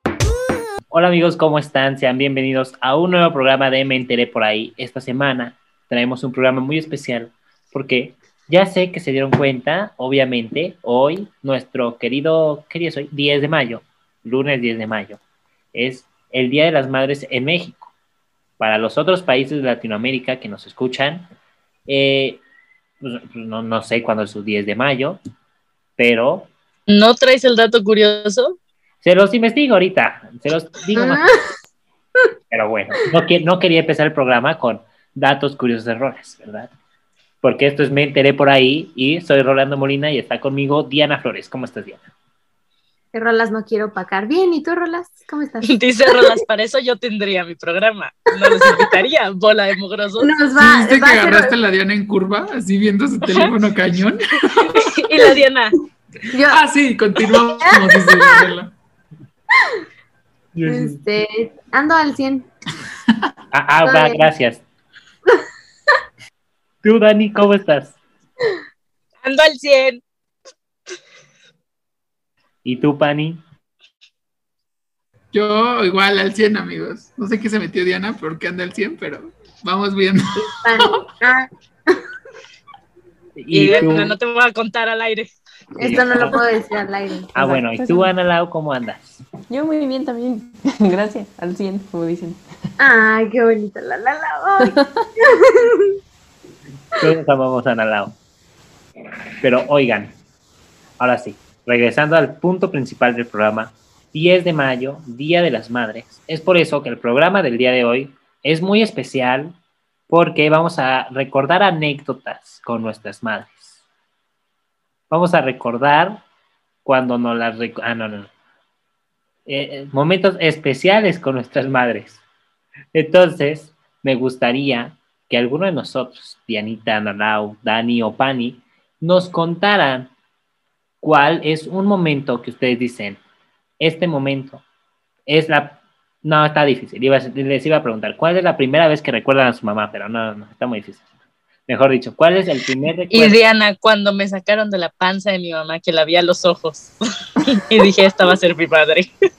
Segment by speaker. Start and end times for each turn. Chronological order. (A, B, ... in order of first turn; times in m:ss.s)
0:00.9-0:15.2 A
0:15.7-0:17.9 A
0:18.6-0:21.2 A
0:21.9-0:22.4 A
0:23.0-0:25.2 A
0:26.0-0:26.5 A
0:26.9-0:28.6 B
0:29.0-0:31.3 A
0:31.0-0:31.5 C
0:32.5-0:36.7 A
0:37.4-0:42.1 A
0:43.1-0:46.4 C
0:45.7-0:50.4 B
0:48.4-0:48.9 C
0:50.2-0:51.6 C
0:50.6-0:54.8 D
0:54.5-0:55.7 B
0:56.3-0:56.6 C
0:56.5-0:58.7 D
0:57.6-0:58.4 C
1:00.5-1:01.0 A
1:00.6-1:02.5 C
1:03.5-1:04.6 A
1:03.8-1:04.3 C
1:06.8-1:08.0 A
1:09.2-1:10.0 B
1:12.6-1:13.4 A
1:15.3-1:21.0 D
1:20.4-1:22.0 C
1:23.4-1:24.2 A
1:23.5-1:25.3 B
1:25.7-1:27.5 C
1:25.8-1:26.4 A
1:27.3-1:29.2 A
1:27.4-1:28.1 E
1:29.5-1:32.4 E
1:32.8-1:36.0 C
1:34.6-1:35.0 E
1:37.0-1:38.2 A
1:39.4-1:40.1 A
1:41.0-1:49.6 A
1:50.1-1:53.8 A
1:55.1-1:56.2 A
1:56.8-1:58.3 A
1:59.4-2:02.2 A
2:02.9-2:10.1 A
2:11.0-2:13.2 A
2:13.8-2:14.6 A
2:15.3-2:21.0 A
2:21.7-2:23.4 A
2:23.1-2:26.9 B
2:27.4-2:29.1 B